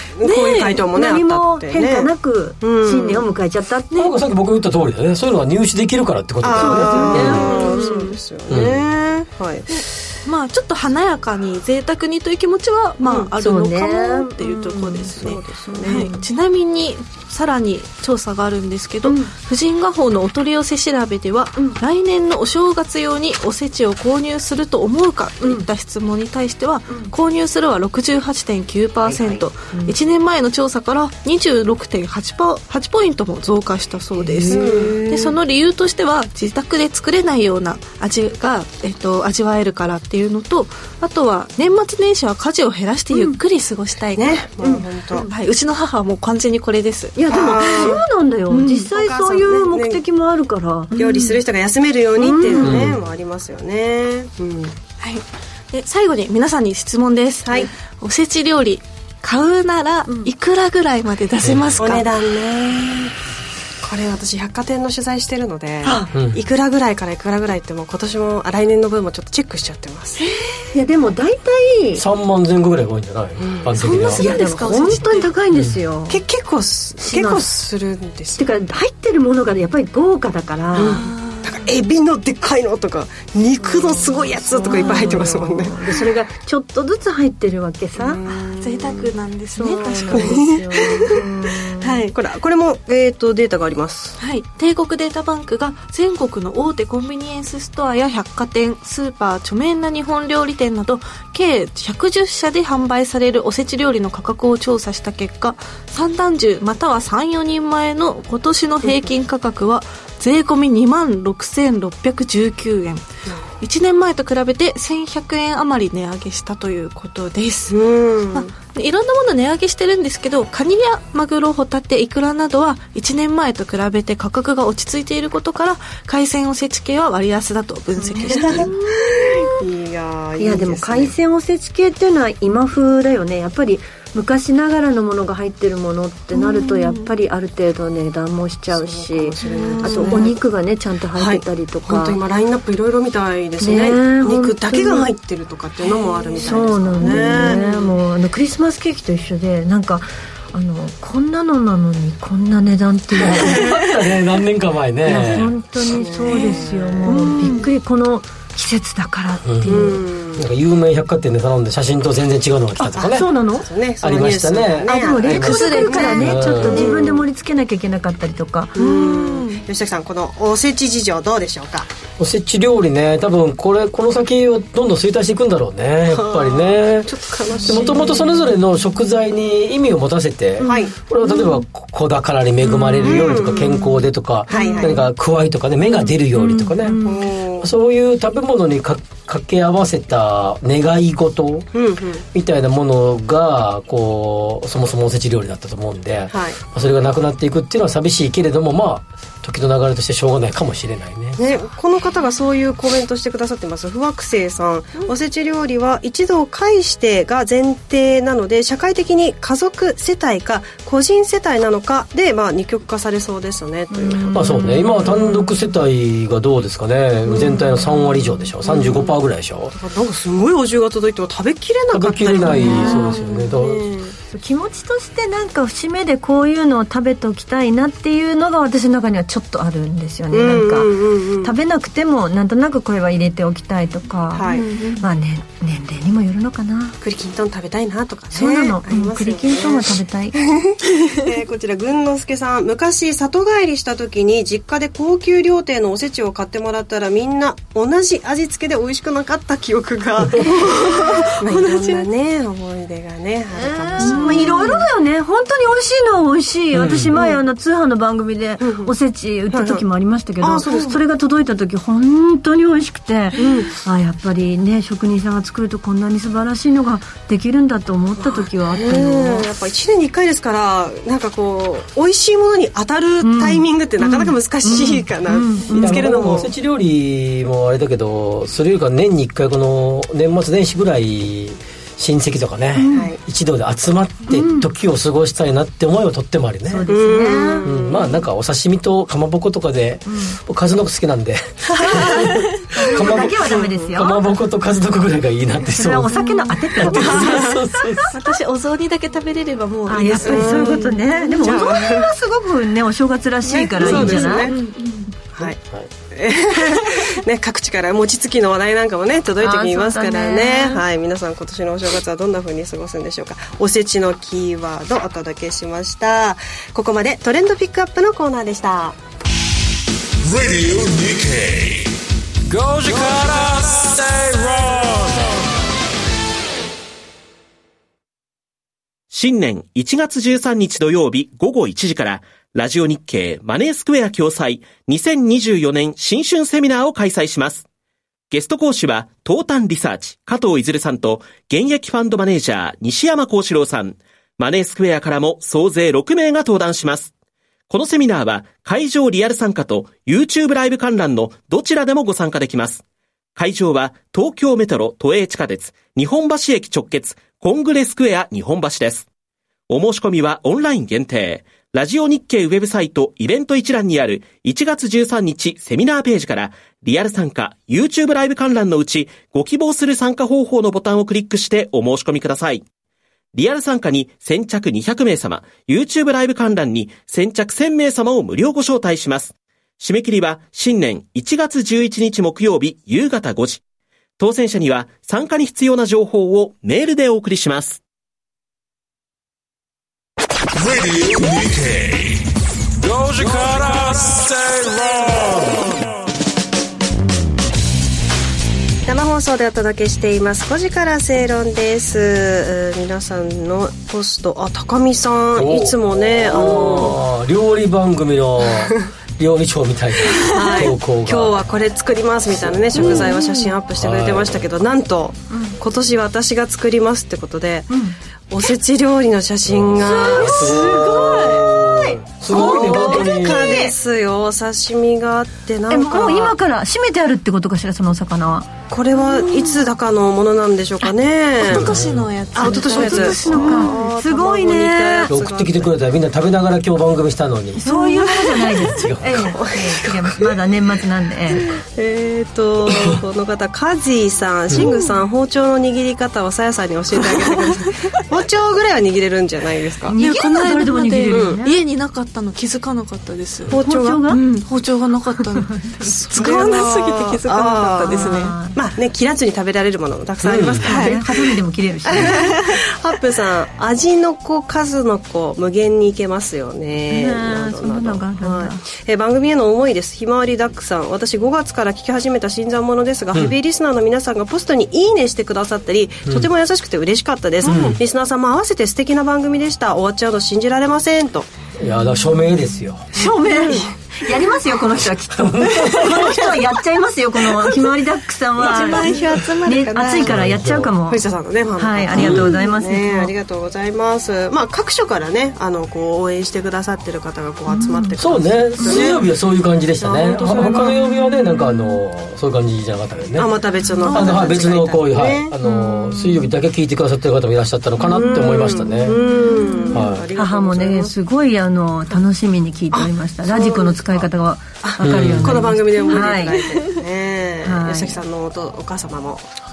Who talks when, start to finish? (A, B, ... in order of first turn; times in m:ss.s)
0:00.2-0:03.3 A
0:00.2-0:00.9 B
0:00.9-0:03.9 C
0:04.0-0:07.5 D
0:06.4-0:09.8 A
0:06.6-0:07.8 C
0:07.2-0:08.2 B
0:08.5-0:08.9 D
0:09.7-0:44.5 B
0:13.0-0:13.3 A
0:13.4-0:15.2 C
0:15.1-0:16.1 A
0:15.7-0:16.2 C
0:19.0-0:19.3 C
0:25.4-0:25.7 C
0:34.2-0:35.1 C
0:34.4-0:35.2 A
0:44.2-0:45.3 A
0:45.1-0:48.0 B
0:47.2-0:50.9 C
0:47.3-0:48.0 A
0:48.5-0:48.9 B
0:48.9-0:50.0 A
0:50.9-0:51.4 B
0:51.0-0:54.8 A
0:52.2-0:52.8 C
0:52.6-0:53.1 D
0:55.0-1:02.1 B
0:57.4-0:57.7 A
1:01.4-1:01.9 D
1:01.8-1:03.2 A
1:03.8-1:10.2 A
1:06.1-1:06.4 D
1:10.2-1:10.6 B
1:10.7-1:12.0 C
1:12.0-1:14.3 D
1:13.4-1:13.8 A
1:13.8-1:15.3 B
1:14.1-1:16.2 C
1:16.1-1:18.5 A
1:17.0-1:17.5 C
1:18.4-1:21.0 C
1:20.7-1:26.1 A
1:20.8-1:21.6 B
1:23.6-1:28.2 C
1:24.7-1:25.2 B
1:28.0-1:29.1 A
1:28.3-1:31.2 B
1:29.6-1:31.9 C
1:30.1-1:34.2 A
1:31.8-1:32.1 B
1:34.2-1:53.1 B
1:53.6-1:57.8 B
1:57.7-1:58.5 A
1:58.3-2:09.4 B
2:08.2-2:11.2 A
2:08.2-2:08.7 C
2:10.4-2:22.2 C
2:16.3-2:17.1 B
2:18.7-2:20.4 A
2:19.4-2:20.3 B
2:21.2-2:27.9 A
2:23.6-2:25.1 C
2:25.8-2:27.8 B
2:26.4-2:33.6 C
2:33.2-2:35.6 D
2:35.0-2:40.0 C
2:35.3-2:37.6 A
2:37.1-2:37.7 B
2:39.4-2:43.3 D
2:39.6-2:40.5 A
2:42.8-2:43.7 C
2:43.0-2:47.3 A
2:44.0-2:47.0 D
2:44.9-2:48.7 C
2:48.8-2:51.9 A
2:48.8-2:49.6 B
2:52.2-2:57.1 D
2:56.1-2:58.0 A
2:57.6-3:11.7 D
3:00.7-3:01.0 A
3:02.7-3:03.2 C
3:03.0-3:03.8 A
3:04.5-3:05.0 A
3:04.6-3:04.8 C
3:07.0-3:07.7 A
3:11.7-3:12.2 A
3:12.3-3:21.4 D
3:16.3-3:16.6 A
3:21.4-3:34.5 A
3:33.9-3:35.4 C
3:34.3-3:39.8 D
3:38.7-3:39.1 A
3:39.7-3:44.2 A
3:41.9-3:43.8 D
3:42.5-3:43.2 C
3:44.3-3:54.5 C
3:50.3-3:51.6 A
3:54.3-3:54.7 A
3:54.5-3:55.0 B
3:55.0-3:57.0 C
3:57.0-4:14.9 A
3:58.3-4:00.4 C
4:10.6-4:12.1 B
4:13.6-4:29.5 C
4:14.0-4:14.8 B
4:16.7-4:17.1 D
4:17.1-4:17.4 A
4:18.6-4:18.9 A
4:19.5-4:19.8 A
4:20.4-4:21.0 A
4:23.4-4:23.7 A
4:28.2-4:36.5 A
4:33.2-4:36.1 C
4:35.7-4:46.9 D
4:42.8-4:43.1 C
4:42.9-4:43.2 A
4:44.3-4:44.7 C
4:46.7-4:47.7 C
4:46.9-4:48.2 A
4:47.6-4:56.1 D
4:50.1-4:50.4 C
4:51.8-4:52.2 A
4:51.8-4:54.3 C
4:52.9-4:53.9 A
4:55.7-4:57.5 C
4:56.1-4:56.6 B
4:56.8-4:58.1 D
4:57.0-4:57.5 A
4:58.1-5:01.6 B
4:59.9-5:04.5 C
5:00.2-5:02.1 A
5:03.5-5:04.6 A
5:03.8-5:04.3 D
5:03.8-5:05.1 B
5:05.4-5:05.9 D
5:06.1-5:19.0 A
5:09.4-5:10.8 C
5:20.2-5:21.9 E
5:22.5-5:25.4 E
5:29.1-5:37.6 F
5:38.3-5:47.1 F
5:47.7-5:52.8 F
5:53.4-5:59.1 F
5:59.7-6:12.6 F
6:13.3-6:23.6 F
6:24.2-6:27.8 F
6:30.6-6:32.2 E
6:32.8-6:35.8 E
6:38.8-6:47.0 A
6:45.3-6:51.4 D
6:50.3-6:57.7 A
6:52.3-6:53.2 D
6:52.9-6:53.4 B
6:53.8-6:54.5 D
6:55.3-6:55.6 C
6:57.7-6:58.0 C
6:58.3-7:00.7 A
6:59.4-7:03.7 D
6:59.8-7:03.8 C
7:02.3-7:06.4 A
7:05.7-7:08.5 C
7:08.7-7:11.8 A
7:09.1-7:09.4 B
7:11.4-7:13.8 B
7:11.4-7:12.1 D
7:12.4-7:15.8 A
7:12.4-7:15.1 C
7:13.3-7:13.6 D
7:15.1-7:17.7 D
7:17.6-7:21.5 C
7:17.7-7:18.5 B
7:18.4-7:19.6 D
7:19.3-7:19.8 A
7:21.4-7:30.0 A
7:24.6-7:24.9 B
7:29.9-7:31.6 C
7:29.9-7:33.6 B
7:31.1-7:31.4 A
7:33.5-7:34.1 A
7:33.5-7:34.2 C
7:34.1-7:38.4 B
7:35.9-7:41.3 A
7:37.9-7:38.6 C
7:40.2-7:40.7 D
7:40.6-7:42.3 C
7:40.6-7:41.0 B
7:41.9-8:01.3 A
7:46.9-7:48.6 C
7:57.4-7:57.8 D
8:01.6-8:02.9 D
8:02.9-8:08.9 C
8:03.0-8:03.6 A
8:05.1-8:06.4 D
8:08.4-8:10.1 B
8:09.4-8:11.0 C
8:10.0-8:10.7 D
8:10.9-8:19.1 A
8:11.6-8:13.1 C
8:11.9-8:12.3 D
8:17.5-8:17.9 C
8:18.0-8:23.3 D
8:18.6-8:19.0 C
8:19.8-8:20.8 A
8:20.4-8:21.2 C
8:23.2-8:25.3 A
8:23.8-8:24.2 B
8:23.9-8:29.0 D
8:27.8-8:31.0 A
8:28.9-8:36.4 C
8:29.2-8:29.7 B
8:29.7-8:30.1 D
8:32.7-8:34.1 A
8:34.6-8:39.3 A
8:34.8-8:35.6 D
8:37.4-8:38.0 C